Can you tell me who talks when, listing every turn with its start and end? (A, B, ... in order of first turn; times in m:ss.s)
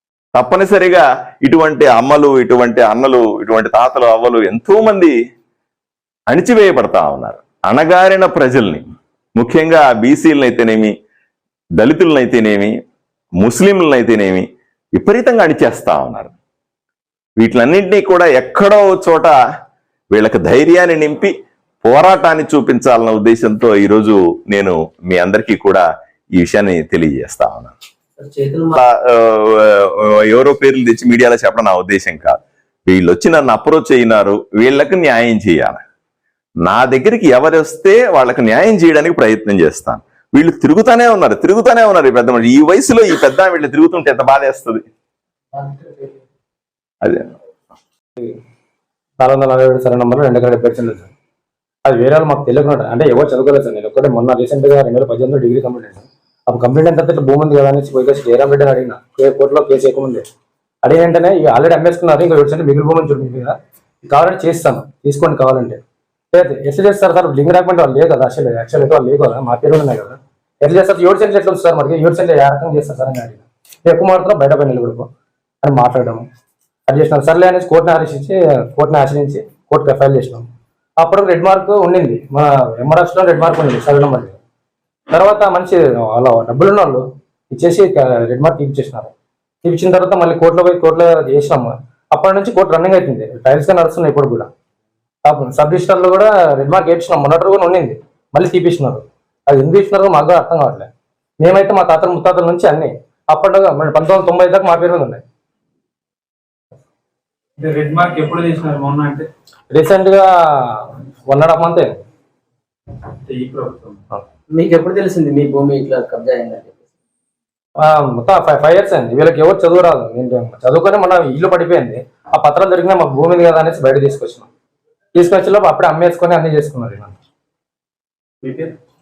0:00.3-0:05.1 A
0:06.3-0:08.8 A
0:09.4-0:10.9 A
0:11.8-0:12.8 A
0:13.4-0:14.4 A
0:15.0-0:16.3 A
0:17.4-0:19.4 A
0:20.1-0:21.3 A
0:21.8-0:25.8 A
0:26.4-0:27.7 A
0:28.2-0:28.8 B
0:28.8-0:35.8 A
0:36.6-0:44.8 A
0:45.6-0:45.9 B
0:49.2-0:51.1 C
0:51.8-1:00.2 C
1:00.8-1:15.1 C
1:15.6-1:16.2 C
1:16.9-1:20.4 C
1:21.0-1:24.4 C
1:25.1-1:29.1 C
1:29.6-1:34.5 C
1:35.2-1:40.9 C
1:41.4-1:45.2 C
1:47.6-1:49.3 D
1:49.7-1:52.0 C
1:53.2-1:54.0 D
1:54.5-1:56.7 B
1:57.8-2:04.5 C
2:05.1-2:07.1 C